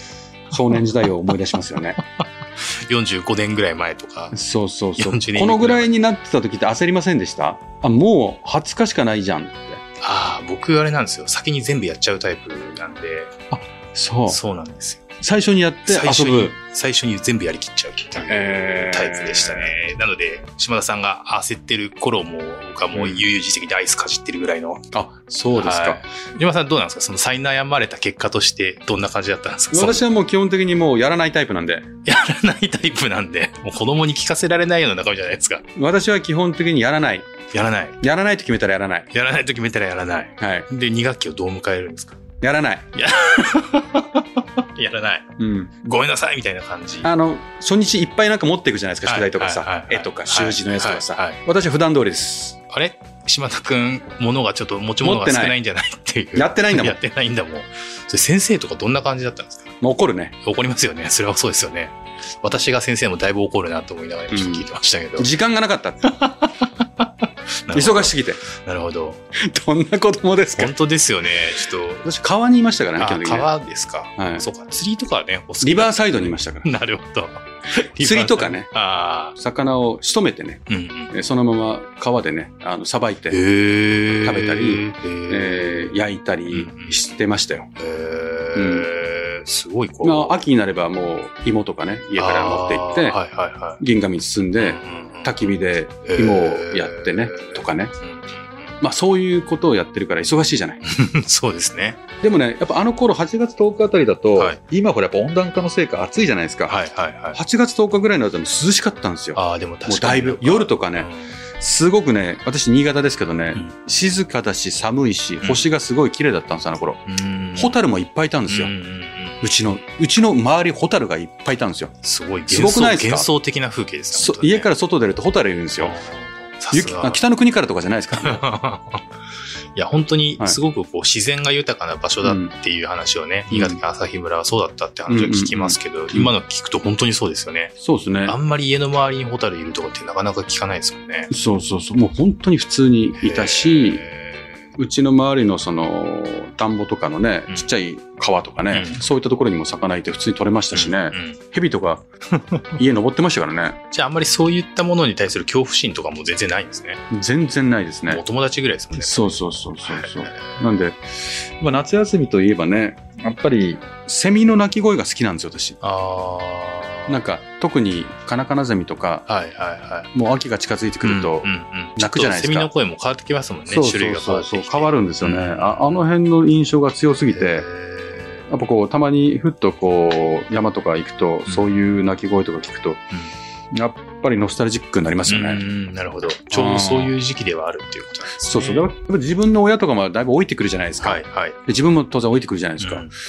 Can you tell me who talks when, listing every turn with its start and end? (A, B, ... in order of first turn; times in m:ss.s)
0:00.5-0:02.0 A
0:00.8-0:01.3 B
0:02.6-0:04.4 B
0:04.3-0:09.8 A
0:05.0-0:05.9 B
0:10.0-0:13.3 B
0:13.5-0:14.4 A
0:14.3-0:15.0 B
0:15.2-0:16.6 A
0:15.9-0:24.8 B
0:18.2-0:19.8 A
0:22.9-0:23.3 A
0:24.9-0:26.0 A
0:25.5-0:30.0 B
0:29.7-0:31.9 A
0:32.0-0:35.6 B
0:35.8-0:37.3 A
0:37.5-0:38.0 B
0:38.0-0:39.1 A
0:39.1-0:42.2 B
0:40.4-0:40.7 A
0:42.4-0:42.9 A
0:43.0-0:45.3 B
0:45.4-0:45.8 A
0:45.8-0:47.1 B
0:47.0-0:52.6 A
0:49.0-0:51.4 B
0:52.7-0:59.7 B
0:55.0-0:55.6 A
0:56.4-0:57.0 A
0:59.8-1:00.3 A
1:00.4-1:05.3 B
1:04.3-1:06.1 A
1:06.0-1:09.2 B
1:07.7-1:08.4 A
1:09.5-1:10.7 A
1:10.6-1:12.1 B
1:12.0-1:13.5 A
1:13.0-1:19.4 B
1:14.2-1:14.4 A
1:15.6-1:16.7 A
1:18.0-1:18.7 A
1:19.4-1:23.4 A
1:20.7-1:21.1 B
1:23.3-1:25.8 B
1:24.2-1:27.7 A
1:26.5-1:27.0 B
1:27.8-1:30.5 B
1:28.6-1:28.9 A
1:30.0-1:33.2 A
1:32.2-1:33.8 B
1:33.8-1:37.9 A
1:34.6-1:38.7 B
1:38.8-1:40.8 A
1:40.8-1:42.0 B
1:42.2-1:46.8 A
1:46.7-1:47.4 B
1:47.3-1:57.0 A
1:49.4-1:51.4 B
1:57.1-1:57.8 B
1:57.6-1:58.7 A
1:58.5-1:59.5 B
1:59.4-2:01.9 A
2:02.0-2:04.7 B
2:02.5-2:03.3 A
2:04.1-2:06.0 A
2:05.8-2:07.2 B
2:06.7-2:08.4 A
2:08.1-2:09.0 B
2:09.8-2:17.7 B
2:12.2-2:12.5 A
2:13.5-2:13.8 A
2:15.1-2:16.3 A
2:17.8-2:18.4 A
2:18.3-2:21.3 B
2:21.3-2:24.0 A
2:23.2-2:24.6 B
2:24.8-2:32.0 A
2:28.7-2:29.0 B
2:30.7-2:31.4 B
2:32.3-2:32.8 B
2:32.8-2:33.8 A
2:33.9-2:37.0 B
2:37.1-2:38.2 A
2:38.1-2:40.7 B
2:39.0-2:45.8 A
2:45.8-2:47.2 B
2:47.1-2:49.3 A
2:49.3-2:50.1 B
2:50.1-2:52.7 A
2:51.0-2:56.0 B
2:53.7-2:57.7 A
2:57.3-2:58.5 B
2:58.5-3:03.1 A
3:03.7-3:05.6 A
3:05.3-3:08.9 B
3:06.5-3:07.1 A
3:08.4-3:13.1 A
3:11.0-3:11.6 B
3:12.8-3:13.1 B